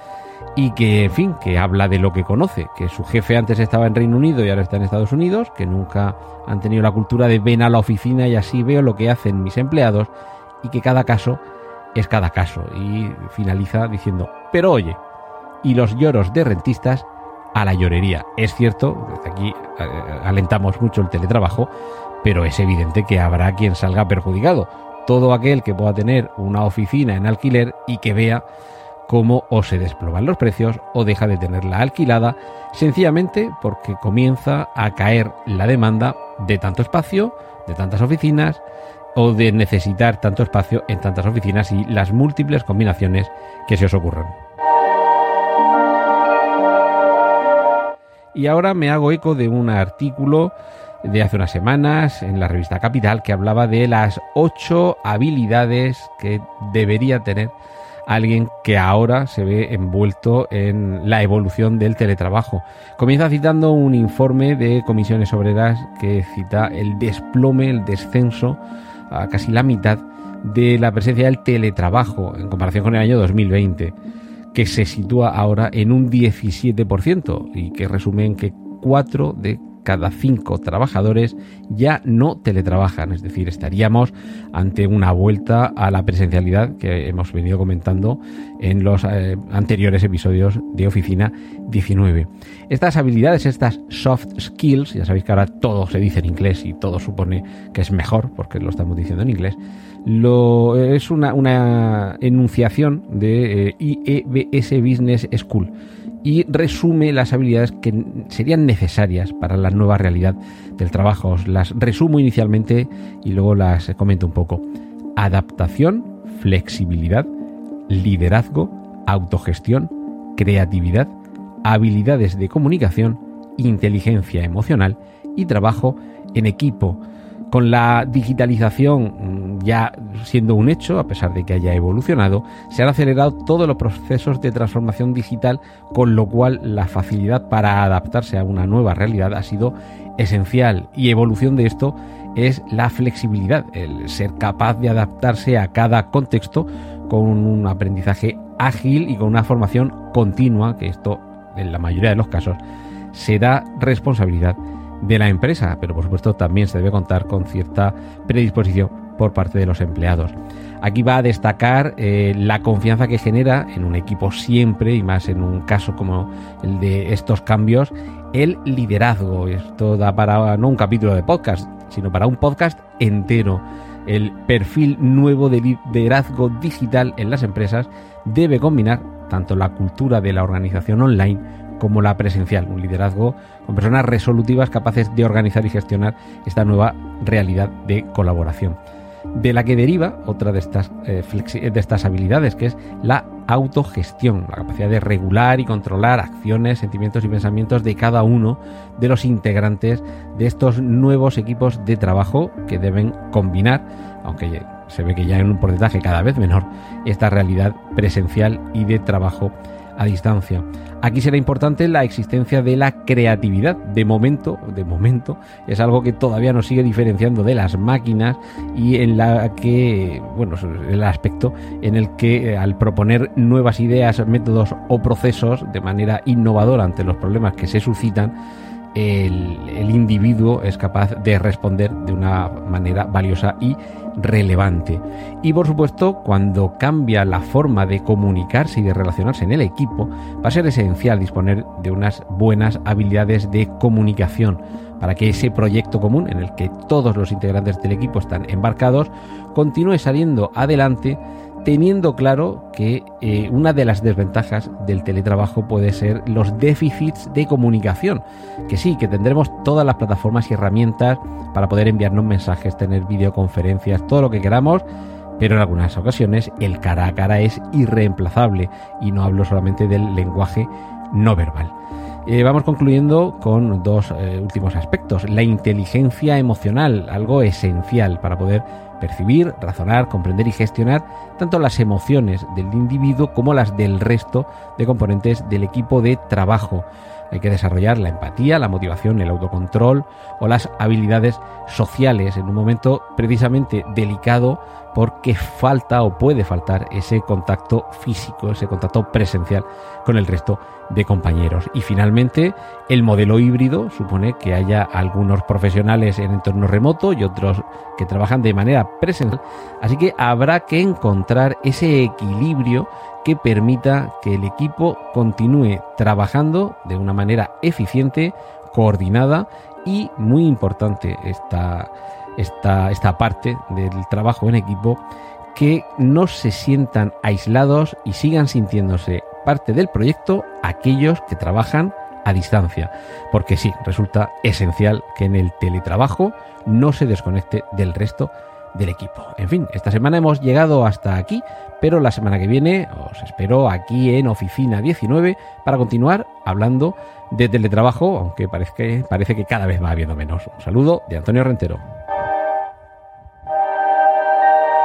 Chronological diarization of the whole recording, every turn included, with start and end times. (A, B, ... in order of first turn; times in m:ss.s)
0:00.6-0:11.4 A
0:11.9-0:15.0 A
0:15.6-0:21.7 A
0:22.2-0:28.4 A
0:29.1-0:38.6 A
0:39.1-0:44.4 A
0:48.3-0:57.5 A
0:58.1-1:08.6 A
1:09.1-1:13.9 A
1:14.5-1:45.7 A
1:46.2-1:54.6 A
1:55.2-1:57.3 A
1:57.9-2:01.1 A
2:01.6-2:32.6 A
2:33.1-3:08.8 A
3:09.4-3:48.4 A
3:48.9-4:24.8 A
4:25.4-4:31.7 A
4:32.2-5:25.0 A
5:25.5-5:51.8 A